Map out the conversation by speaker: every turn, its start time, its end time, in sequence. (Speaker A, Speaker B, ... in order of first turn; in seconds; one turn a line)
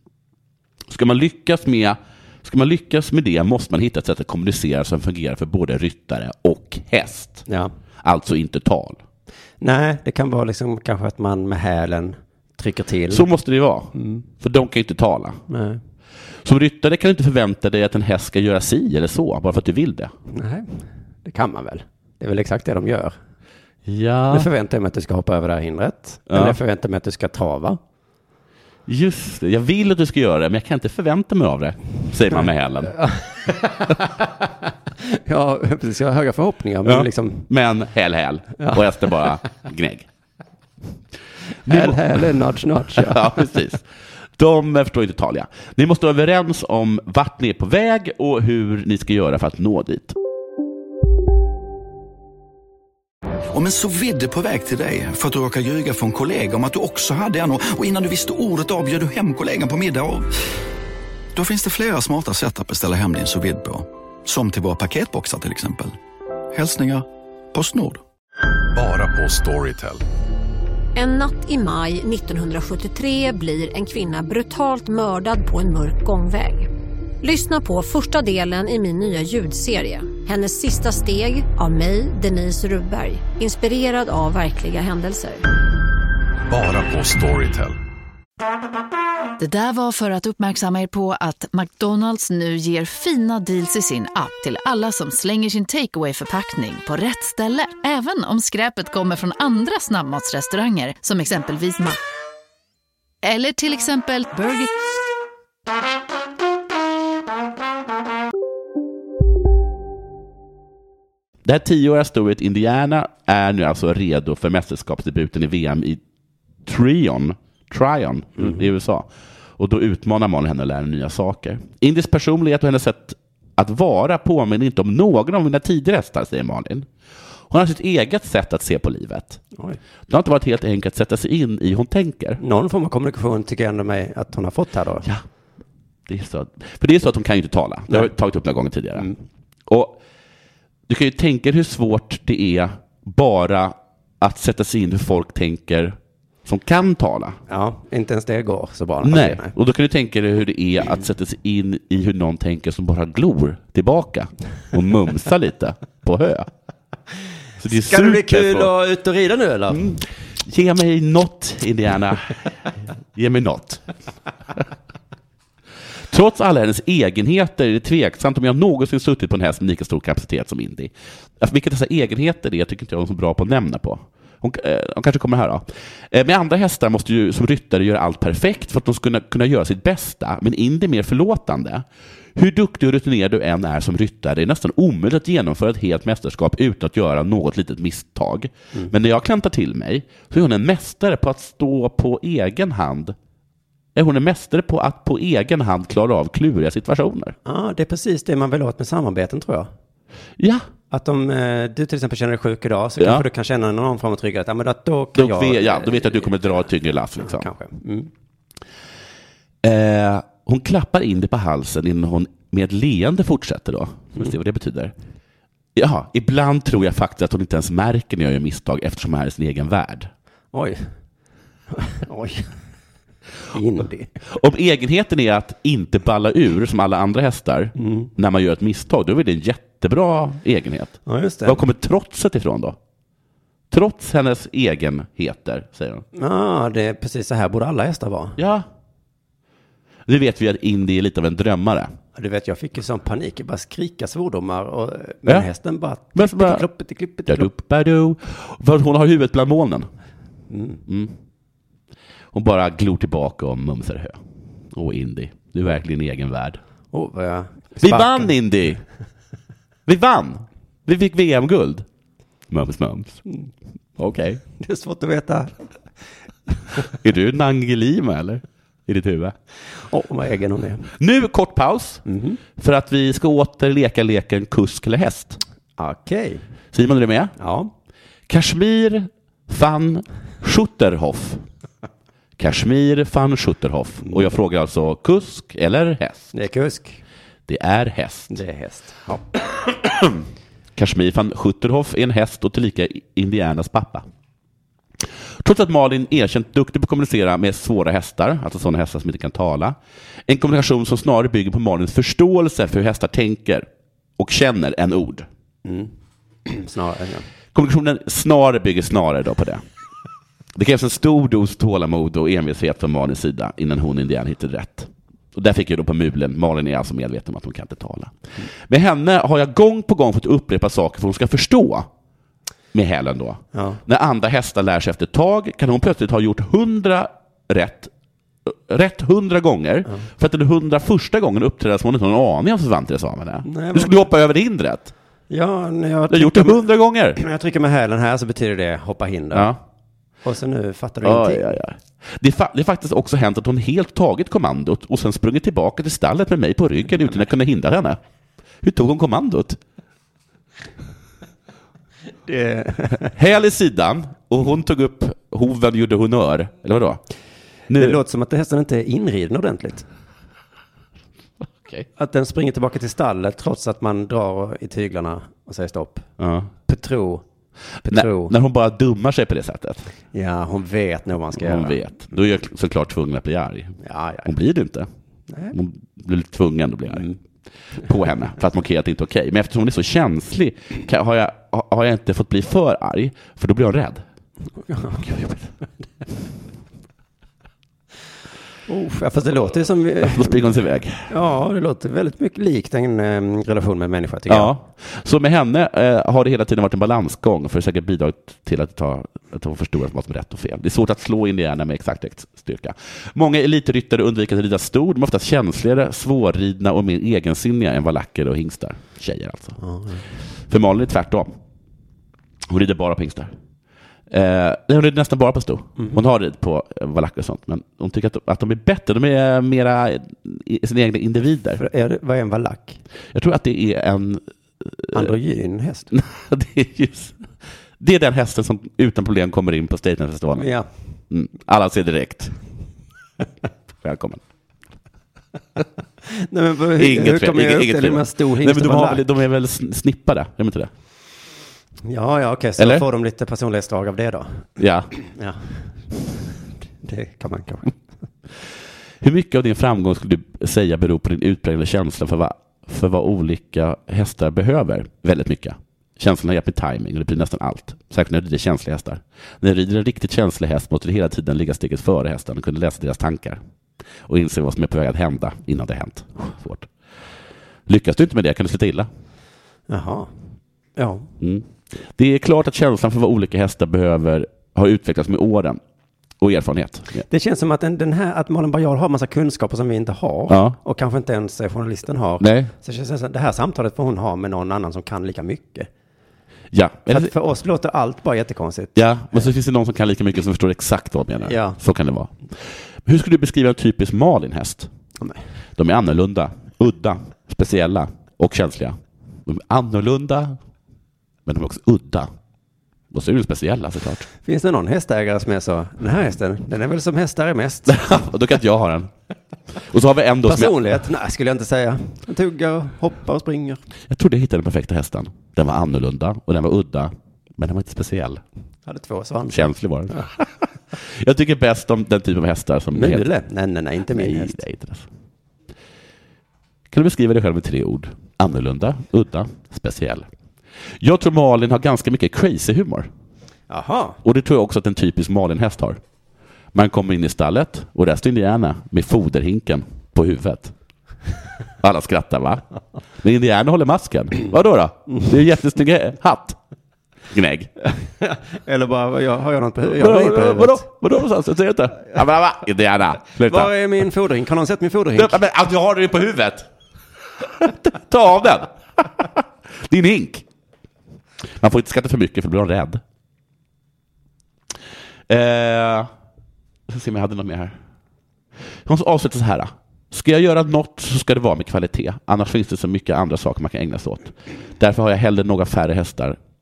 Speaker A: 0.9-7.4
Speaker B: 7.5-7.7
Speaker A: 8.0-9.0
Speaker B: 9.6-13.3
Speaker A: 13.1-15.4
Speaker B: 13.9-14.2
Speaker B: 15.5-15.8
Speaker A: 16.4-20.1
Speaker B: 20.3-23.1
Speaker A: 23.9-24.5
Speaker B: 24.3-27.8
Speaker A: 26.3-26.6
Speaker A: 28.9-33.0
Speaker B: 32.9-34.1
Speaker B: 35.0-37.5
Speaker A: 36.8-40.1
Speaker B: 38.6-38.8
Speaker A: 41.6-42.2
Speaker B: 41.6-43.5
Speaker A: 42.9-43.8
Speaker A: 44.4-50.1
Speaker C: 53.5-60.3
Speaker C: 61.3-66.0
Speaker C: 66.5-68.0
Speaker D: 68.7-70.0
Speaker E: 70.9-76.7
Speaker E: 77.2-85.4
Speaker D: 86.5-87.8
Speaker F: 89.4-102.0
Speaker F: 103.2-104.7
Speaker A: 111.4-116.0
Speaker A: 116.6-126.9
Speaker A: 127.5-129.4
Speaker A: 130.1-132.4
Speaker B: 132.4-135.1
Speaker A: 136.1-139.1
Speaker A: 139.7-140.0
Speaker A: 140.9-147.4
Speaker B: 147.5-149.5
Speaker A: 149.0-156.5
Speaker A: 157.6-158.7
Speaker B: 157.7-159.9
Speaker A: 159.7-162.3
Speaker A: 163.1-163.8
Speaker A: 166.1-193.1
Speaker A: 193.9-197.3
Speaker B: 197.4-199.7
Speaker A: 200.4-200.7
Speaker B: 200.9-206.4
Speaker A: 203.0-203.2
Speaker A: 205.1-207.5
Speaker B: 207.2-208.1
Speaker A: 209.6-214.9
Speaker A: 215.7-220.1
Speaker B: 220.5-220.9
Speaker B: 221.7-222.5
Speaker B: 223.5-224.1
Speaker A: 224.3-232.8
Speaker B: 227.8-228.1
Speaker B: 231.1-231.6
Speaker A: 233.7-236.0
Speaker B: 236.1-238.4
Speaker A: 238.4-238.7
Speaker A: 240.1-241.9
Speaker B: 242.2-247.5
Speaker A: 246.1-246.7
Speaker A: 247.2-249.9
Speaker B: 250.5-250.8
Speaker A: 250.9-251.1
Speaker A: 252.3-254.2
Speaker A: 254.7-256.6
Speaker B: 256.9-258.3
Speaker A: 257.8-258.8
Speaker A: 259.9-261.8
Speaker A: 262.5-263.2
Speaker A: 264.0-264.4
Speaker B: 264.6-265.5
Speaker A: 267.0-269.3
Speaker B: 269.8-270.9
Speaker A: 271.0-272.0
Speaker B: 272.1-272.4
Speaker A: 272.6-275.4
Speaker B: 275.8-276.4
Speaker A: 276.7-277.3
Speaker B: 277.4-277.7
Speaker A: 278.3-281.4
Speaker A: 282.4-286.3
Speaker B: 286.3-287.0
Speaker A: 287.5-288.4
Speaker B: 288.3-289.2
Speaker A: 289.8-290.2
Speaker A: 290.8-294.1
Speaker A: 295.4-303.7
Speaker A: 304.2-305.3
Speaker B: 305.6-305.9
Speaker B: 306.4-307.2
Speaker A: 307.5-309.6
Speaker A: 310.5-321.9
Speaker A: 322.7-327.9
Speaker B: 323.5-323.8
Speaker A: 328.4-334.9
Speaker B: 333.4-334.0
Speaker B: 335.3-336.6
Speaker A: 336.1-337.2
Speaker B: 337.1-339.5
Speaker A: 339.3-339.6
Speaker B: 340.2-341.4
Speaker A: 341.0-348.0
Speaker A: 348.6-349.6
Speaker B: 352.2-353.1
Speaker A: 353.1-357.0
Speaker A: 357.7-358.0
Speaker B: 357.7-359.8
Speaker A: 361.4-361.9
Speaker B: 362.0-366.1
Speaker A: 366.2-366.5
Speaker B: 366.6-367.2
Speaker B: 367.8-368.3
Speaker A: 367.8-369.9
Speaker B: 370.1-371.8
Speaker A: 371.4-374.9
Speaker B: 373.8-374.3
Speaker B: 375.3-375.5
Speaker A: 375.5-377.1
Speaker A: 377.8-384.0
Speaker B: 384.7-385.1
Speaker A: 385.0-385.3
Speaker B: 388.7-390.5
Speaker A: 390.0-391.1
Speaker B: 391.1-394.5
Speaker A: 394.3-409.6
Speaker B: 409.6-410.0
Speaker A: 410.5-411.3
Speaker A: 412.5-413.3
Speaker A: 414.1-421.6
Speaker B: 421.6-422.8
Speaker A: 423.1-425.1
Speaker B: 424.9-425.9
Speaker A: 425.9-427.2
Speaker A: 427.8-430.5
Speaker B: 430.4-430.7
Speaker A: 431.1-432.3
Speaker A: 433.8-434.2
Speaker B: 436.1-439.0
Speaker A: 436.8-440.7
Speaker B: 441.8-445.4
Speaker A: 442.6-442.8
Speaker A: 444.6-444.9
Speaker B: 446.8-447.8
Speaker A: 449.0-463.4
Speaker A: 464.1-466.7
Speaker A: 467.7-468.9
Speaker B: 469.7-470.1
Speaker B: 470.8-471.1
Speaker A: 471.2-475.6
Speaker A: 476.2-477.0
Speaker B: 477.1-485.7
Speaker A: 480.3-480.6
Speaker A: 482.2-482.5
Speaker A: 486.5-487.1
Speaker B: 486.9-489.3
Speaker A: 488.7-494.7
Speaker B: 491.2-491.6
Speaker A: 495.6-500.4
Speaker A: 501.2-502.1
Speaker A: 502.9-504.1
Speaker B: 504.2-508.0
Speaker A: 507.7-508.9
Speaker A: 509.7-510.6
Speaker B: 510.2-513.6
Speaker A: 513.9-518.2
Speaker B: 518.6-520.0
Speaker A: 519.3-523.1
Speaker B: 522.7-524.4
Speaker A: 523.9-524.9
Speaker A: 526.7-530.1
Speaker A: 530.8-532.9
Speaker B: 533.5-534.0
Speaker A: 534.0-535.8
Speaker A: 536.5-540.5
Speaker A: 541.6-542.4
Speaker A: 543.0-546.4
Speaker A: 547.1-547.5
Speaker B: 548.0-550.6
Speaker A: 549.8-553.5
Speaker B: 553.2-555.2
Speaker A: 555.0-556.5
Speaker A: 557.2-560.2
Speaker A: 561.4-562.8
Speaker A: 565.1-565.9
Speaker A: 566.7-567.5
Speaker A: 568.6-576.2